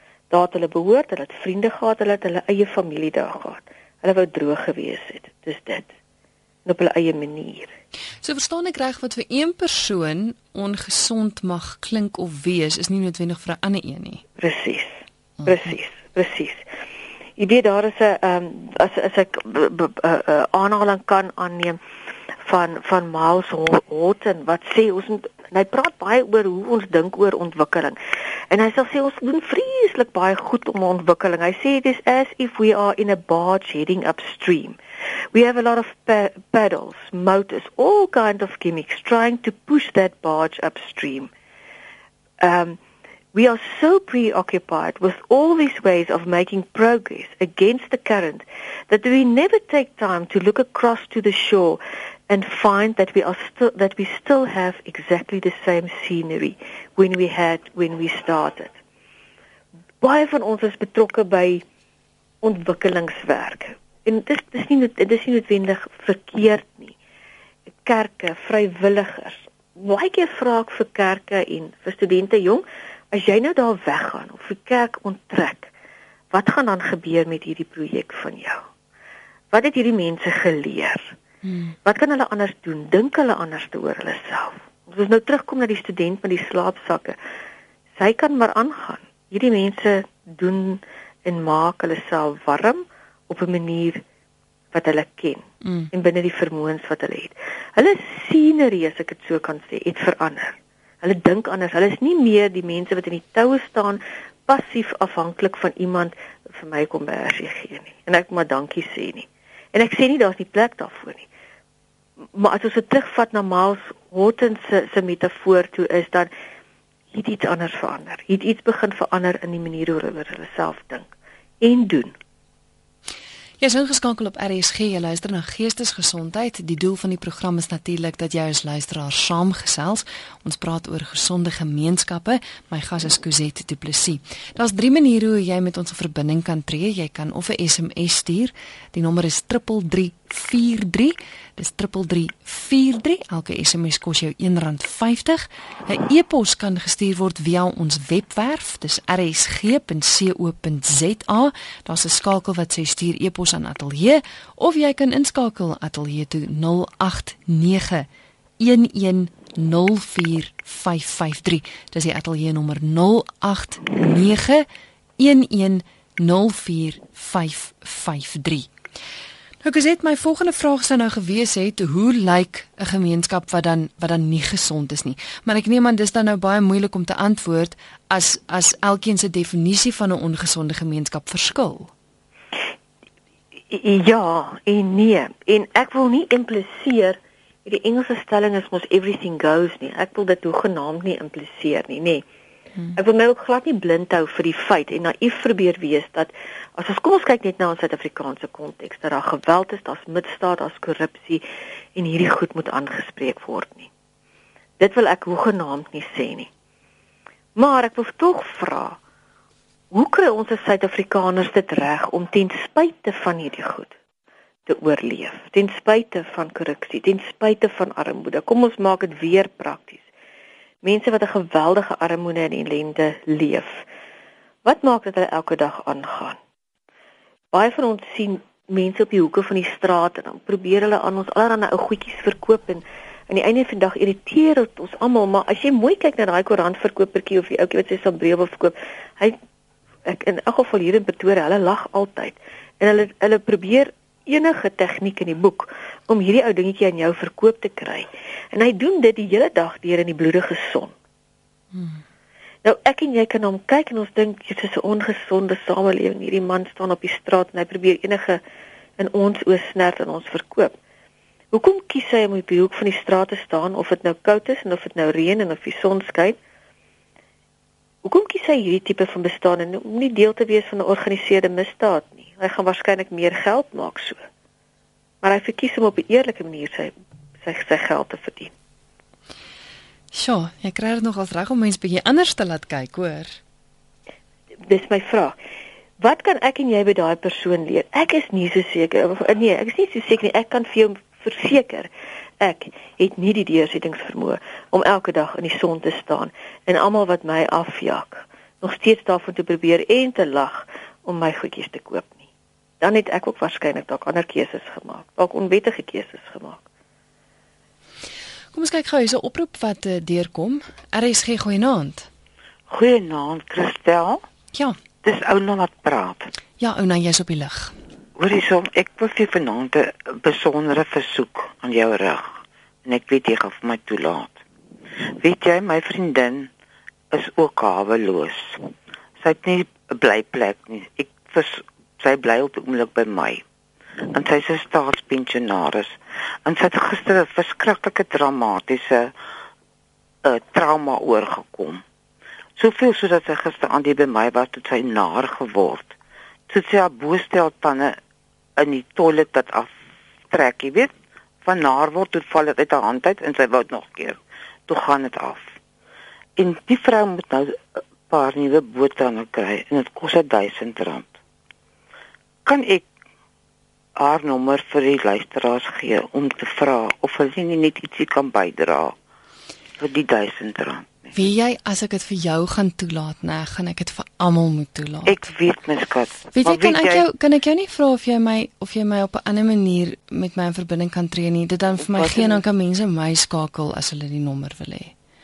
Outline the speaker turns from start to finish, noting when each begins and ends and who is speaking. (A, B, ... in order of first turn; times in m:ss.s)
0:00.3-0:05.9 A
0:06.6-0:07.7 A
0:08.2-0:14.2 B
0:14.4-0:16.6 A
0:17.4-0:21.8 A
0:22.4-0:28.0 A
0:28.5-0:34.8 A
0:35.3-0:41.3 A
0:42.4-0:42.8 A
0:43.3-0:58.7 A
1:00.0-1:01.6 A
1:02.4-1:06.9 A
1:07.8-1:15.7 A
1:16.3-1:18.6 A
1:19.5-1:21.1 A
1:21.4-1:21.7 B
1:21.8-1:27.2 A
1:28.0-1:34.0 A
1:34.7-1:51.2 A
1:52.3-1:56.3 A
1:57.1-2:01.1 A
2:01.6-2:02.1 A
2:03.6-2:38.1 B
2:38.6-2:44.7 B
2:45.2-2:48.7 B
2:49.6-3:01.9 B
3:03.7-3:12.2 A
3:12.9-3:21.4 A
3:21.9-3:23.9 A
3:24.8-3:26.5 A
3:27.6-3:29.0 A
3:29.9-3:33.9 A
3:34.7-3:40.0 A
3:40.8-3:43.8 A
3:44.6-3:46.4 A
3:47.5-3:59.4 A
4:00.0-4:10.9 A
4:12.6-4:18.4 A
4:19.0-4:20.7 A
4:21.5-4:26.4 A
4:28.0-4:34.2 A
4:35.2-4:38.5 A
4:40.1-4:43.4 B
4:44.6-4:45.4 A
4:46.0-5:02.2 A
5:02.8-5:06.6 A
5:08.5-5:12.1 B
5:12.7-5:14.2 C
5:15.0-5:16.3 C
5:16.6-5:17.7 B
5:18.2-5:24.4 C
5:25.0-5:26.5 C
5:27.1-5:33.4 C
5:34.1-5:39.1 C
5:40.2-5:41.8 C
5:42.6-5:45.9 C
5:46.5-5:48.0 C
5:48.6-5:49.7 C
5:50.3-5:55.5 C
5:56.4-6:01.1 C
6:02.4-6:02.8 C
6:04.0-6:09.0 C
6:09.8-6:11.1 C
6:11.1-6:15.3 B
6:15.0-6:17.0 C
6:16.3-6:24.9 B
6:21.8-6:22.4 C